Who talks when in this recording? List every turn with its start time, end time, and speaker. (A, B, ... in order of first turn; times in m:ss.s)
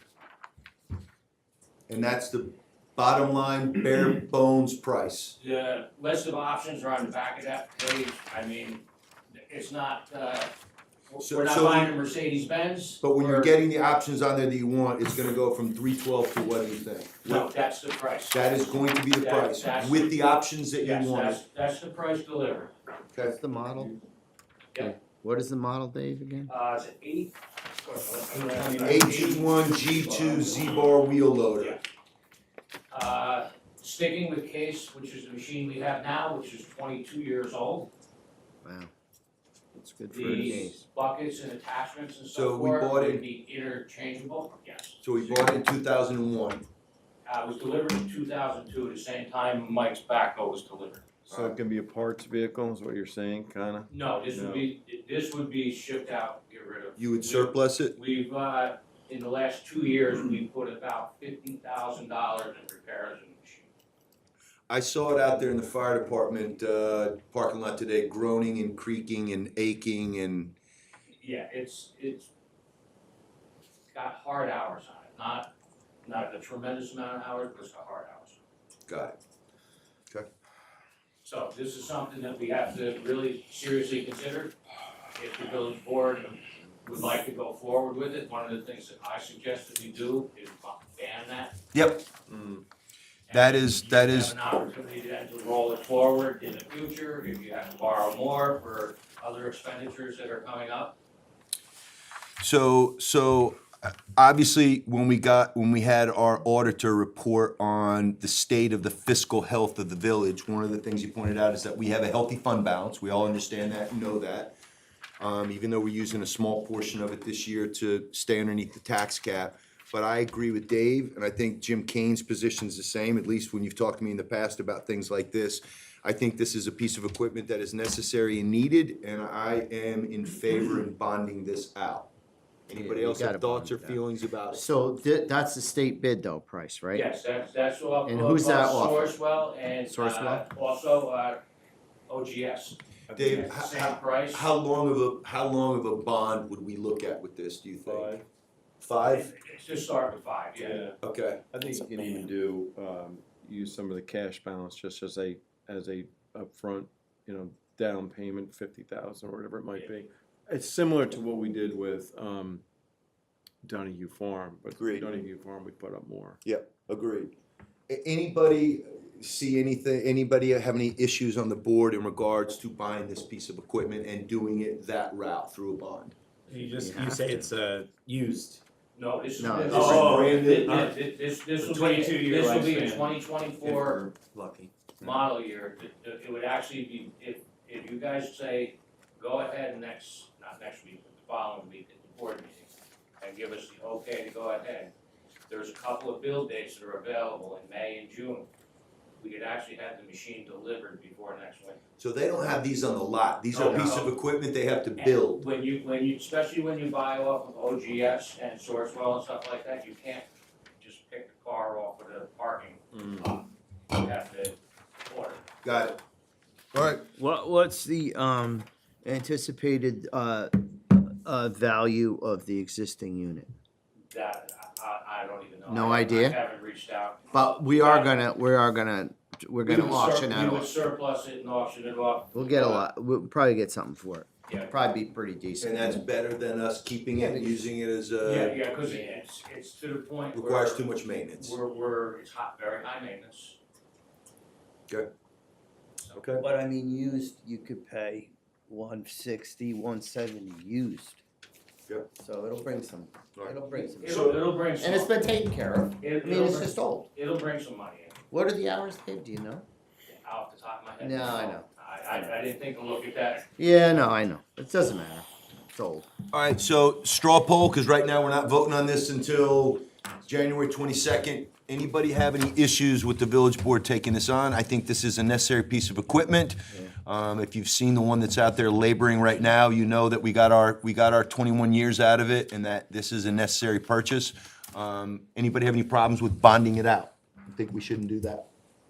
0:01.9-0:05.4 A
0:05.4-0:10.5 B
0:11.1-0:13.5 B
0:11.2-0:11.9 A
0:13.0-0:17.5 A
0:17.2-0:20.2 B
0:18.3-0:21.4 A
0:20.8-0:22.7 B
0:23.2-0:23.9 C
0:24.8-0:26.5 C
0:26.5-0:30.8 B
0:28.8-0:31.8 A
0:32.9-0:37.9 B
0:38.6-0:38.9 C
0:39.8-0:40.8 C
0:40.1-0:45.6 B
0:40.2-0:40.6 D
0:42.3-0:43.2 A
0:45.0-0:46.6 A
0:47.2-0:51.1 B
0:51.3-0:54.7 D
0:51.3-0:51.6 A
0:53.9-1:03.7 B
0:57.0-0:58.0 A
1:04.7-1:10.6 A
1:11.2-1:12.3 B
1:13.9-1:15.5 B
1:16.0-1:18.4 B
1:18.9-1:19.2 A
1:21.2-1:24.5 B
1:25.2-1:31.6 B
1:31.7-1:32.0 A
1:32.3-1:32.6 D
1:33.3-1:41.0 B
1:33.3-1:34.3 A
1:42.4-1:54.5 A
1:55.2-2:12.1 A
2:12.7-2:14.6 A
2:12.7-2:17.1 C
2:16.9-2:21.4 B
2:18.1-2:19.2 C
2:19.9-2:20.4 C
2:22.1-2:24.5 B
2:23.1-2:28.2 A
2:27.8-2:28.2 D
2:28.8-2:29.3 A
2:29.0-2:30.9 B
2:30.6-2:31.0 D
2:31.0-2:31.4 A
2:31.5-2:42.6 D
2:43.6-2:46.4 D
2:44.8-2:45.1 A
2:46.4-2:47.3 A
2:47.9-2:56.2 A
2:56.5-2:58.6 E
2:56.6-2:57.5 C
2:58.9-3:04.0 B
2:59.4-3:00.0 C
2:59.7-3:00.9 A
2:59.7-3:00.9 E
3:01.6-3:05.2 E
3:03.6-3:04.1 D
3:05.0-3:14.9 B
3:15.5-3:18.5 B
3:19.2-3:21.8 B
3:22.0-3:25.4 A
3:23.5-3:24.1 B
3:25.0-3:30.3 B
3:30.8-3:34.6 B
3:32.9-3:33.3 D
3:35.1-3:35.4 B
3:35.6-3:36.0 A
3:36.7-3:37.0 A
3:37.0-3:43.5 C
3:44.1-3:48.1 B
3:45.7-3:46.4 C
3:47.3-3:50.7 C
3:49.6-3:52.9 B
3:52.3-3:56.0 C
3:54.5-3:54.7 B
3:55.6-3:58.7 A
3:57.1-3:57.7 C
3:58.2-4:03.6 B
4:00.3-4:01.6 A
4:06.1-4:06.4 A
4:06.4-4:11.2 C
4:12.2-4:17.1 C
4:13.4-4:14.4 A
4:13.9-4:15.1 B
4:16.0-4:18.2 B
4:18.3-4:19.6 C
4:20.1-4:23.5 B
4:21.0-4:22.3 C
4:23.6-4:26.1 C
4:26.3-4:48.5 A